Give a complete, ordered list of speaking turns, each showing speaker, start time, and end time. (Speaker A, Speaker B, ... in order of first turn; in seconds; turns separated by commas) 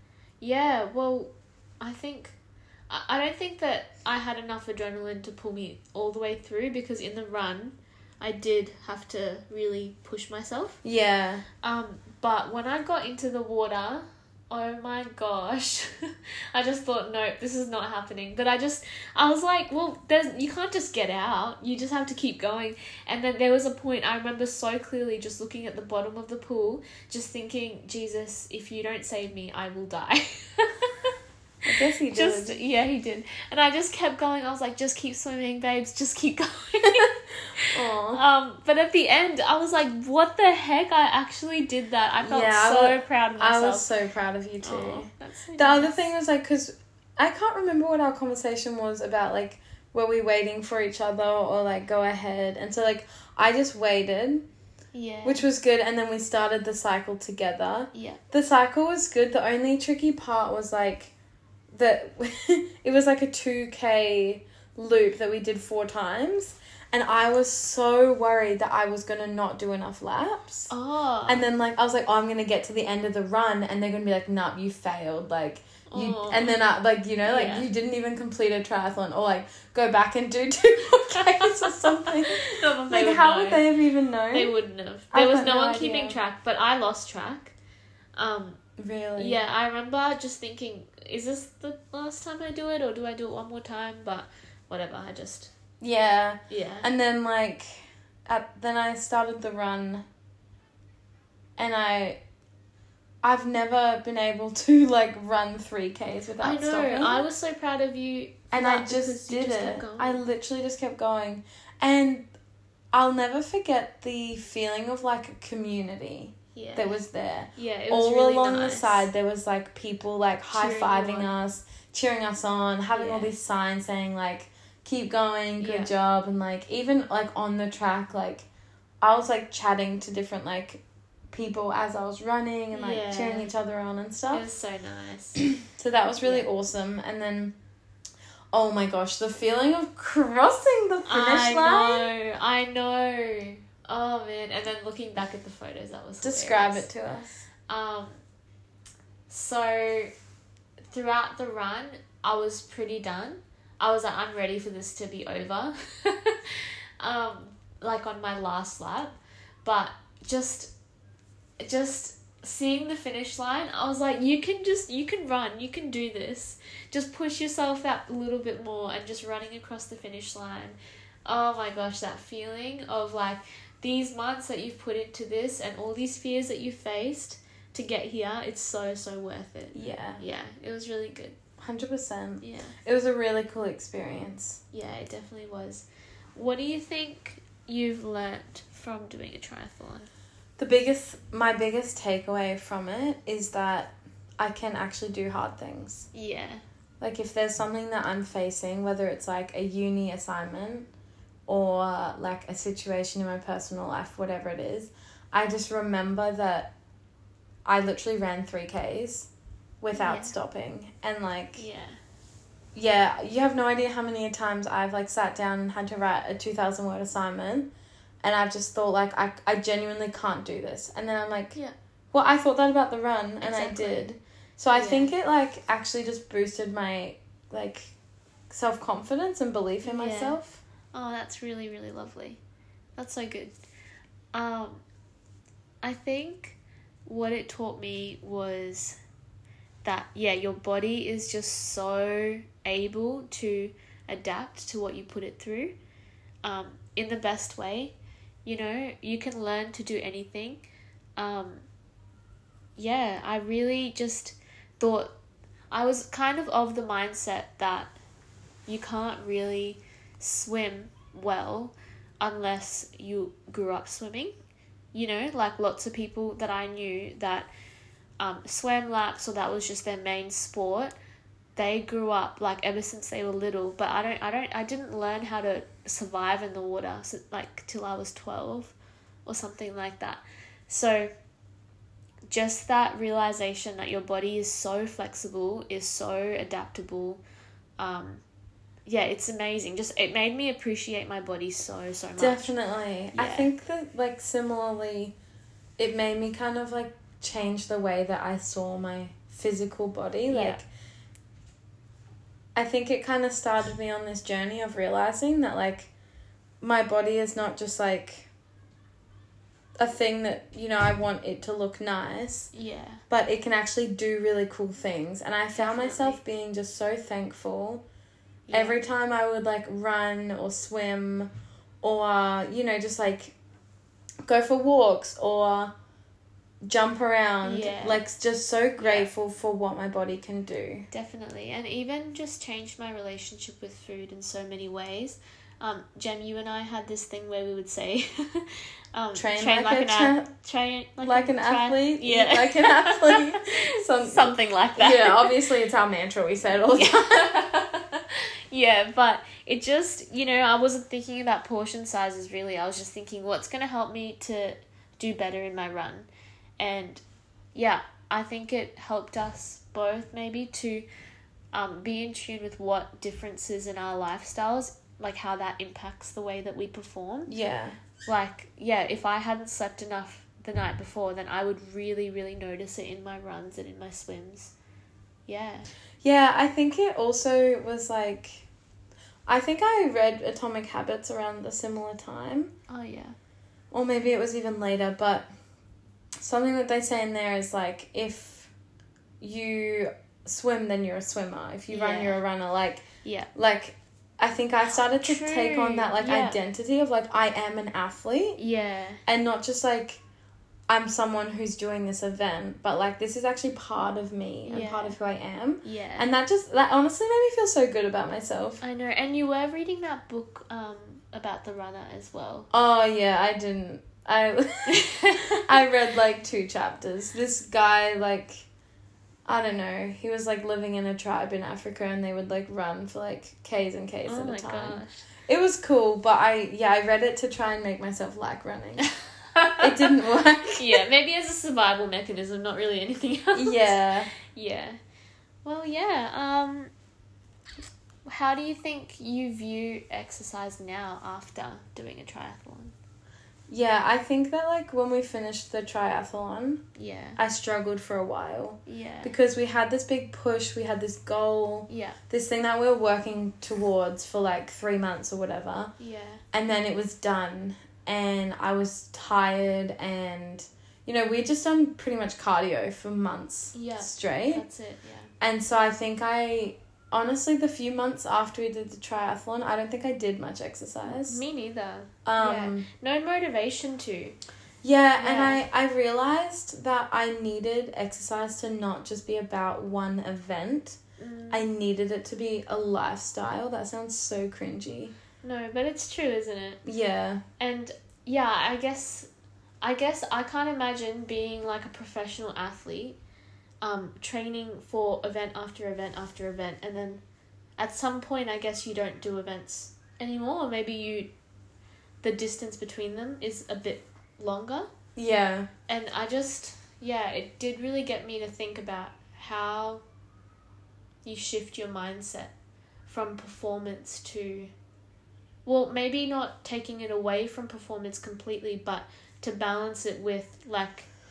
Speaker A: 0.4-2.4, Speaker A: 2.9-10.8, Speaker B: 10.8-11.4, Speaker A: 11.6-31.1, Speaker B: 31.6-32.6, Speaker A: 31.8-43.9, Speaker B: 37.6-38.2, Speaker B: 42.2-54.5, Speaker A: 44.6-46.1, Speaker A: 54.9-55.5, Speaker B: 55.2-61.1, Speaker A: 57.9-58.2, Speaker B: 61.7-70.7, Speaker A: 70.7-71.5, Speaker B: 71.3-84.5, Speaker A: 75.9-76.5, Speaker A: 77.2-77.7, Speaker A: 81.1-83.7, Speaker A: 84.3-87.5, Speaker B: 85.1-86.2, Speaker A: 88.2-88.6, Speaker B: 88.8-89.4, Speaker A: 89.2-95.5, Speaker B: 95.8-100.0, Speaker A: 96.5-96.9, Speaker B: 101.6-102.2, Speaker B: 103.2-107.2, Speaker A: 106.4-110.2, Speaker B: 108.5-112.3, Speaker B: 112.9-128.4, Speaker A: 116.5-117.0, Speaker A: 117.5-119.1, Speaker A: 120.5-121.3, Speaker A: 122.9-123.3, Speaker A: 125.6-125.9, Speaker B: 129.0-134.4, Speaker A: 132.7-133.5, Speaker A: 134.3-135.5, Speaker B: 135.6-137.6, Speaker A: 136.2-136.5, Speaker B: 138.5-142.1, Speaker A: 141.1-146.9, Speaker B: 146.2-147.4, Speaker A: 147.7-148.2, Speaker A: 149.3-150.1, Speaker A: 150.9-160.7, Speaker A: 161.6-181.4, Speaker B: 179.7-180.2, Speaker B: 181.6-184.6, Speaker A: 182.4-182.8, Speaker A: 184.7-190.1, Speaker B: 190.6-196.1, Speaker A: 196.1-196.6, Speaker B: 197.0-200.9, Speaker B: 201.5-206.7, Speaker B: 207.7-209.3, Speaker B: 209.8-211.6, Speaker A: 209.9-210.3, Speaker A: 211.6-212.0, Speaker B: 212.7-217.7, Speaker B: 218.2-221.6, Speaker B: 222.1-227.9, Speaker A: 223.4-224.1, Speaker A: 224.7-225.1, Speaker B: 228.5-230.6, Speaker A: 229.8-230.4, Speaker A: 230.9-232.4, Speaker A: 233.0-233.5, Speaker A: 234.3-234.8, Speaker A: 235.8-239.0, Speaker A: 239.8-245.7, Speaker A: 246.4-251.6, Speaker A: 252.8-255.1, Speaker A: 255.7-257.9, Speaker A: 258.7-264.3, Speaker A: 264.9-267.5, Speaker A: 268.2-270.9, Speaker A: 271.6-281.1, Speaker A: 282.3-287.2, Speaker A: 287.8-288.2, Speaker A: 288.9-292.5, Speaker B: 292.2-295.1, Speaker A: 293.1-293.5, Speaker B: 295.8-300.6, Speaker A: 300.3-300.6, Speaker B: 302.5-305.9, Speaker B: 306.6-308.3, Speaker B: 309.8-312.5, Speaker A: 312.5-313.0, Speaker B: 313.1-317.8, Speaker A: 315.5-316.2, Speaker A: 318.5-318.8, Speaker B: 318.5-321.3, Speaker B: 321.8-323.3, Speaker B: 324.2-325.7, Speaker B: 326.6-330.9, Speaker A: 327.4-328.0, Speaker A: 328.8-329.1, Speaker A: 330.9-345.3, Speaker B: 339.1-340.3, Speaker B: 341.0-347.4, Speaker A: 346.7-356.1, Speaker A: 356.6-357.0, Speaker A: 357.5-360.9, Speaker A: 361.5-367.3, Speaker B: 367.3-367.8, Speaker A: 368.0-374.5, Speaker A: 375.3-375.7, Speaker B: 376.0-378.4, Speaker B: 379.3-382.5, Speaker A: 382.7-383.1, Speaker B: 383.7-385.3, Speaker B: 386.2-388.5, Speaker B: 389.2-398.4, Speaker A: 391.7-392.2, Speaker A: 393.0-393.3, Speaker A: 394.9-396.4, Speaker A: 398.4-399.0, Speaker B: 399.1-400.0, Speaker B: 400.7-408.6, Speaker A: 404.4-404.9, Speaker A: 405.6-406.1, Speaker A: 408.6-412.5, Speaker B: 412.5-418.5, Speaker A: 414.7-415.5, Speaker B: 419.2-428.9, Speaker A: 424.1-425.0, Speaker A: 428.8-429.9, Speaker B: 429.6-430.8, Speaker A: 430.5-434.8, Speaker B: 433.3-434.1, Speaker A: 435.4-436.7, Speaker A: 438.1-442.7, Speaker B: 443.5-446.6, Speaker A: 446.8-447.2, Speaker B: 447.2-455.7, Speaker A: 448.6-449.1, Speaker A: 451.7-452.0, Speaker A: 455.8-456.2, Speaker B: 456.3-464.4, Speaker A: 463.5-465.1, Speaker B: 465.2-471.2, Speaker A: 470.8-474.1, Speaker B: 472.1-472.6, Speaker B: 474.6-480.8, Speaker A: 475.0-475.4, Speaker A: 481.0-481.4, Speaker B: 481.3-484.9, Speaker A: 485.2-486.6, Speaker B: 486.6-487.2, Speaker A: 487.4-489.1, Speaker A: 489.6-493.0, Speaker A: 493.6-497.0, Speaker A: 497.6-501.1, Speaker A: 502.0-504.7, Speaker B: 504.9-505.5, Speaker A: 505.7-509.8, Speaker A: 511.0-512.3, Speaker A: 512.9-514.5, Speaker A: 515.4-520.9